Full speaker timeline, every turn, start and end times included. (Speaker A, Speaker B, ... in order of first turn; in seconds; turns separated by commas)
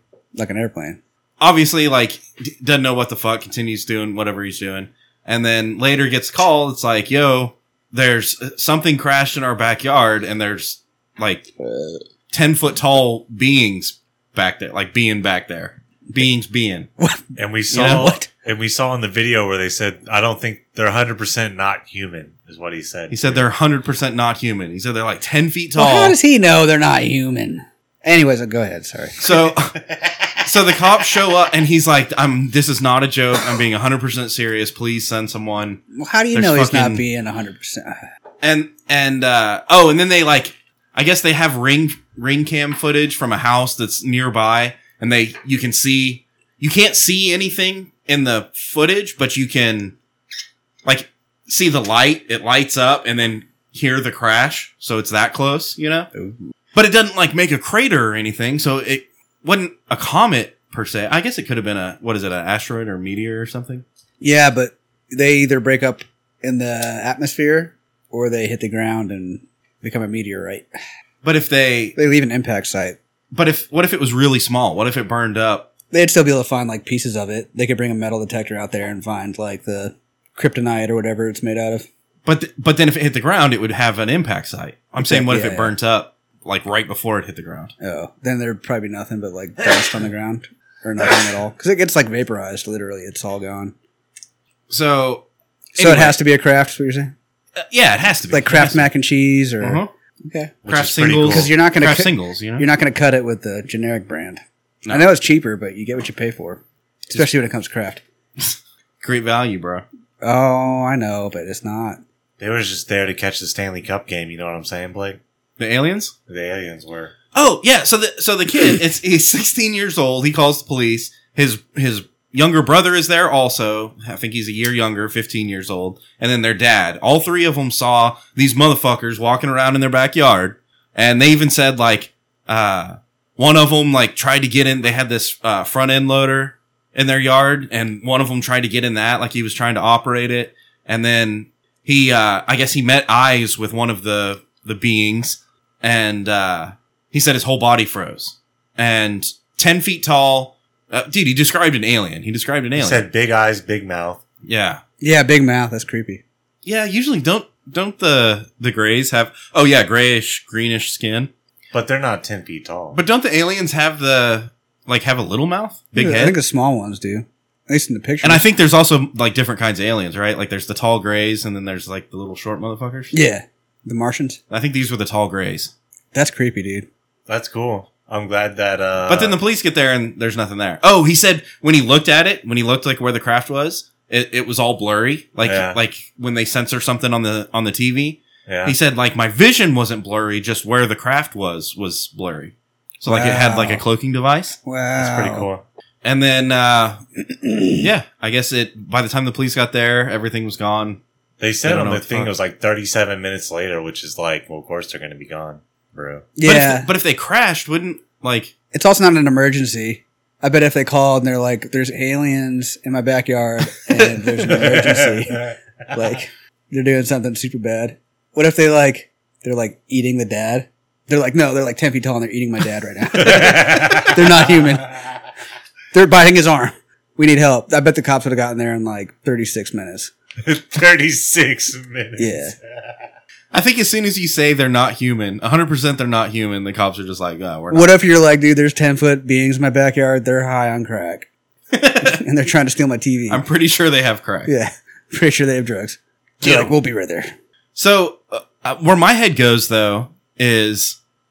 Speaker A: 0.3-1.0, Speaker B: 1.4-11.5, Speaker A: 11.6-12.0, Speaker B: 12.3-16.9, Speaker A: 17.0-18.3, Speaker C: 17.4-23.5, Speaker B: 17.7-18.1, Speaker B: 23.1-26.2, Speaker A: 25.8-29.3, Speaker B: 29.2-29.8, Speaker C: 29.8-30.4, Speaker B: 30.4-35.8, Speaker A: 35.9-38.1, Speaker B: 36.3-37.0, Speaker B: 38.4-50.0, Speaker B: 50.9-56.1, Speaker B: 56.8-63.8, Speaker A: 64.2-70.7, Speaker B: 71.2-72.0, Speaker A: 72.0-73.0, Speaker B: 73.3-75.7, Speaker A: 75.9-81.9, Speaker B: 82.3-87.7, Speaker A: 85.0-85.7, Speaker A: 87.8-93.7, Speaker B: 94.7-95.3, Speaker A: 95.8-97.1, Speaker B: 95.8-96.2, Speaker B: 97.6-98.9, Speaker A: 98.3-100.6, Speaker B: 99.6-99.9, Speaker C: 100.6-101.5, Speaker B: 100.7-102.7, Speaker A: 101.2-108.0, Speaker B: 108.4-109.8, Speaker A: 110.2-112.0, Speaker C: 112.4-115.2, Speaker B: 115.6-116.1, Speaker C: 116.3-117.1, Speaker B: 117.3-153.1, Speaker C: 152.8-154.2, Speaker B: 154.4-154.8, Speaker A: 155.0-156.2, Speaker B: 156.7-161.3, Speaker C: 161.7-163.0, Speaker B: 162.9-166.4, Speaker A: 166.0-168.5, Speaker B: 168.2-173.1, Speaker A: 173.1-174.4, Speaker B: 174.5-175.7, Speaker A: 176.1-176.9, Speaker C: 177.3-179.4, Speaker B: 179.1-194.6, Speaker C: 185.4-185.8, Speaker C: 188.5-188.8, Speaker A: 193.1-193.8, Speaker A: 194.7-195.5, Speaker C: 195.0-195.6, Speaker B: 196.0-197.0, Speaker A: 197.3-197.8, Speaker B: 197.8-201.0, Speaker C: 201.4-206.3, Speaker B: 201.6-202.3, Speaker A: 206.4-206.9, Speaker B: 206.4-208.5, Speaker A: 208.7-225.0, Speaker C: 214.5-215.5, Speaker C: 223.1-224.7, Speaker A: 225.9-230.1, Speaker C: 230.4-233.1, Speaker A: 232.2-232.6, Speaker B: 233.5-237.9, Speaker A: 237.7-241.3, Speaker B: 241.7-242.2, Speaker A: 242.0-243.4, Speaker B: 243.3-244.5, Speaker A: 244.5-247.3, Speaker B: 246.4-246.7, Speaker B: 247.8-251.0